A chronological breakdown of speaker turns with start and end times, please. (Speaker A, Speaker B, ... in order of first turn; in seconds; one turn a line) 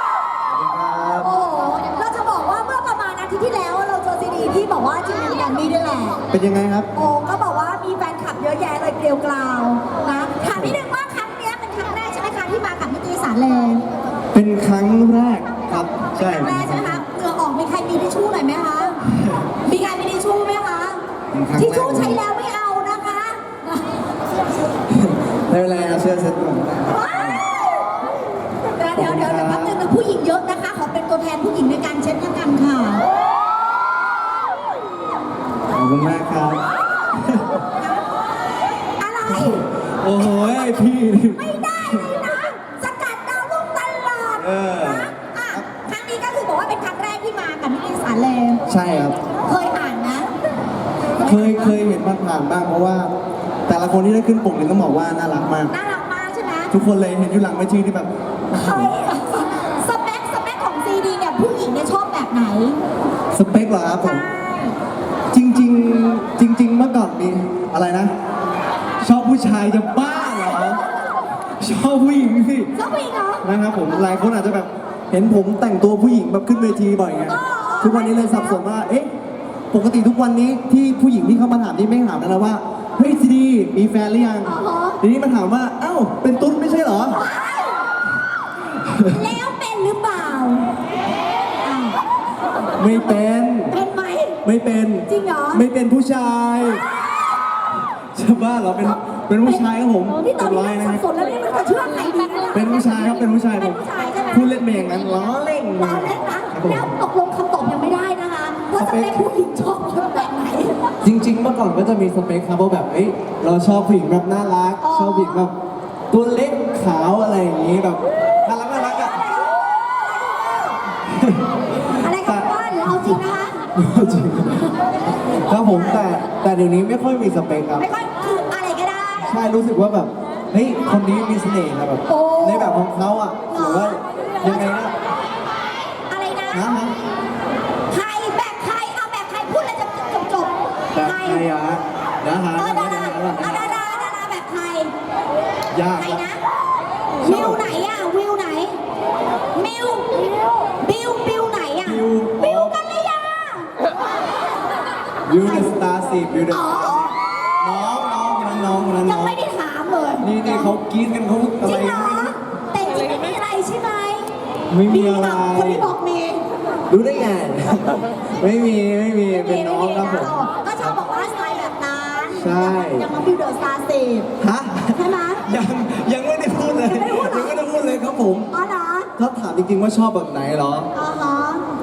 Speaker A: 0.5-1.3
Speaker B: 1.2-6.2
Speaker A: 6.3-6.9
Speaker B: 7.0-13.8
Speaker A: 10.5-10.8
Speaker A: 14.3-17.0
Speaker B: 16.1-19.0
Speaker A: 19.2-19.4
Speaker B: 19.6-21.0
Speaker A: 21.3-22.2
Speaker B: 21.6-23.8
Speaker A: 24.9-27.4
Speaker B: 26.9-27.4
Speaker B: 28.8-33.0
Speaker A: 28.9-29.8
Speaker A: 35.7-36.6
Speaker A: 37.1-37.5
Speaker B: 37.6-38.1
Speaker B: 38.8-39.6
Speaker A: 39.3-42.1
Speaker B: 41.3-48.6
Speaker A: 44.4-45.7
Speaker A: 48.7-49.2
Speaker B: 49.4-50.3
Speaker B: 51.2-51.7
Speaker A: 51.2-53.1
Speaker A: 53.7-55.7
Speaker B: 55.7-56.7
Speaker A: 56.7-59.0
Speaker B: 58.5-62.8
Speaker A: 63.3-64.3
Speaker B: 64.0-64.8
Speaker A: 65.3-68.1
Speaker A: 69.0-70.8
Speaker A: 71.6-72.7
Speaker B: 72.7-73.5
Speaker A: 73.4-79.1
Speaker B: 77.3-78.6
Speaker A: 79.7-87.2
Speaker B: 84.5-85.0
Speaker B: 87.1-87.8
Speaker A: 88.8-89.2
Speaker B: 89.0-90.7
Speaker B: 91.6-92.0
Speaker A: 92.8-93.8
Speaker B: 93.7-94.4
Speaker A: 94.4-96.8
Speaker B: 95.1-95.6
Speaker B: 96.8-97.3
Speaker A: 98.1-101.0
Speaker B: 98.8-99.6
Speaker B: 100.2-104.6
Speaker A: 102.5-106.9
Speaker B: 105.8-110.8
Speaker A: 108.8-109.2
Speaker A: 111.0-115.5
Speaker B: 114.8-115.5
Speaker A: 116.1-119.2
Speaker B: 118.8-120.8
Speaker A: 121.1-121.4
Speaker B: 121.9-123.7
Speaker A: 122.1-122.5
Speaker A: 123.8-124.7
Speaker A: 125.4-127.9
Speaker B: 125.5-126.0
Speaker B: 127.8-129.3
Speaker A: 129.2-134.9
Speaker B: 132.1-132.8
Speaker B: 133.5-134.9
Speaker B: 135.9-136.7
Speaker A: 136.5-136.9
Speaker B: 137.9-141.5
Speaker A: 140.9-143.8
Speaker B: 142.6-144.9
Speaker A: 145.7-146.2
Speaker B: 145.9-146.4
Speaker A: 147.2-147.7
Speaker B: 147.2-148.8
Speaker B: 149.6-150.1
Speaker B: 150.8-153.7
Speaker A: 151.8-152.8
Speaker A: 155.3-159.4
Speaker B: 155.4-155.7
Speaker B: 156.5-157.2
Speaker B: 159.0-160.7
Speaker A: 160.2-162.4
Speaker B: 161.6-164.3
Speaker A: 164.7-165.9
Speaker B: 164.9-166.4
Speaker A: 166.9-170.9
Speaker B: 169.3-174.3
Speaker A: 172.3-173.1
Speaker A: 174.4-178.5
Speaker B: 174.9-175.4
Speaker B: 176.7-177.7
Speaker B: 178.5-179.1
Speaker A: 179.2-180.9
Speaker B: 180.9-181.7